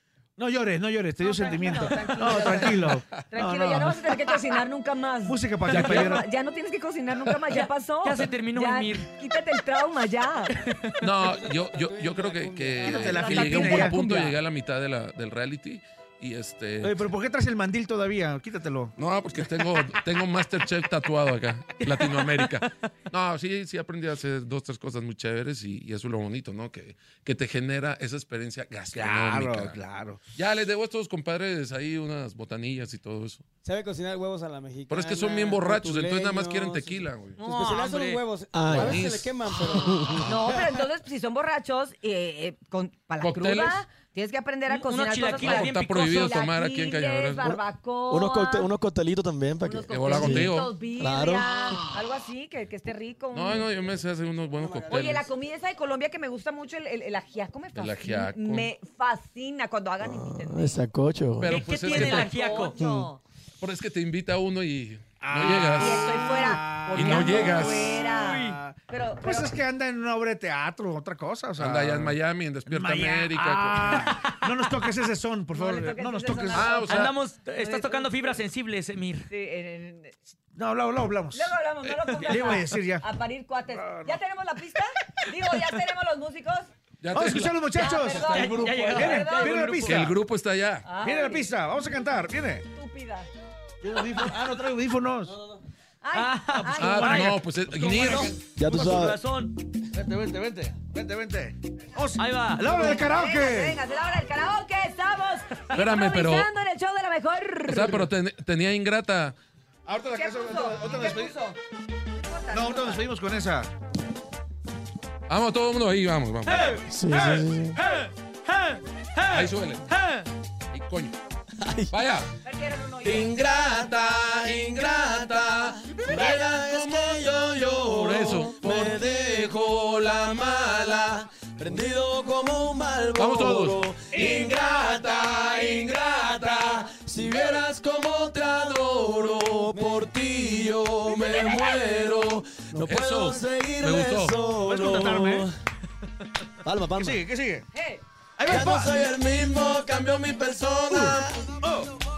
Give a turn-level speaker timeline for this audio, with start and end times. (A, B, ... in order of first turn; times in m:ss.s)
0:00.4-0:04.1 A
0:01.2-0:10.6 B
0:05.2-0:06.2 A
0:05.7-0:06.2 C
0:07.5-0:09.1 D
0:10.6-0:11.0 D
0:11.0-0:17.0 C
0:11.2-0:13.3 E
0:12.8-0:14.0 A
0:13.2-0:14.0 B
0:16.8-0:18.9 A
0:19.0-0:29.8 C
0:21.8-0:22.7 D
0:28.9-0:30.2 A
0:30.4-0:33.4 C
0:33.6-0:40.8 E
0:34.9-0:37.4 C
0:37.4-0:38.2 D
0:38.5-0:39.0 F
0:38.7-0:39.6 C
0:39.8-0:40.4 F
0:40.3-0:48.7 B
0:43.2-0:43.8 C
0:44.7-0:46.4 D
0:45.4-0:47.6 C
0:48.1-0:52.0 F
0:49.6-0:53.7 B
0:49.9-0:50.7 C
0:53.3-0:55.3 C
0:54.6-0:55.3 E
0:54.9-1:00.8 B
0:57.8-0:58.7 C
1:00.0-1:01.6 F
1:01.4-1:02.6 C
1:01.5-1:02.8 D
1:01.8-1:03.2 B
1:02.8-1:03.1 F
1:03.6-1:06.3 C
1:05.2-1:16.8 A
1:05.6-1:09.6 B
1:06.9-1:08.0 C
1:11.6-1:14.4 C
1:15.5-1:18.4 B
1:16.5-1:17.1 C
1:16.9-1:19.3 D
1:19.3-1:20.2 B
1:20.5-1:21.5 A
1:21.3-1:26.7 B
1:21.9-1:22.6 D
1:22.2-1:23.0 A
1:23.7-1:24.2 A
1:27.0-1:27.7 C
1:27.1-1:30.2 A
1:27.8-1:29.9 B
1:28.1-1:30.1 D
1:29.8-1:30.9 C
1:30.9-1:31.5 B
1:31.0-1:32.6 A
1:32.7-1:33.3 B
1:33.8-1:35.4 A
1:35.3-1:35.6 E
1:36.0-1:37.3 B
1:36.1-1:39.6 D
1:36.8-1:39.0 A
1:36.8-1:38.4 C
1:38.5-1:39.2 F
1:39.9-1:43.8 A
1:42.2-1:42.9 D
1:42.6-1:48.1 B
1:45.7-1:46.5 C
1:47.7-1:49.4 C
1:49.9-1:51.4 A
1:50.1-1:51.6 B
1:52.2-1:53.1 B
1:52.5-1:53.7 A
1:55.3-1:56.8 C
1:56.4-2:00.3 A
1:56.8-1:57.8 F
1:59.3-2:00.0 C
2:00.7-2:01.2 C
2:01.6-2:02.0 F
2:01.9-2:02.3 C
2:02.4-2:03.3 B
2:03.0-2:25.5 F
2:04.5-2:09.0 C
2:13.2-2:13.8 C
2:14.1-2:14.4 A
2:19.8-2:20.1 E
2:22.8-2:24.4 C
2:24.6-2:25.5 A
2:26.6-2:27.2 F
2:27.0-2:27.7 A
2:27.7-2:28.0 B
2:28.4-2:29.0 A
2:28.5-2:31.6 F
2:30.8-2:31.2 C
2:30.9-2:31.9 A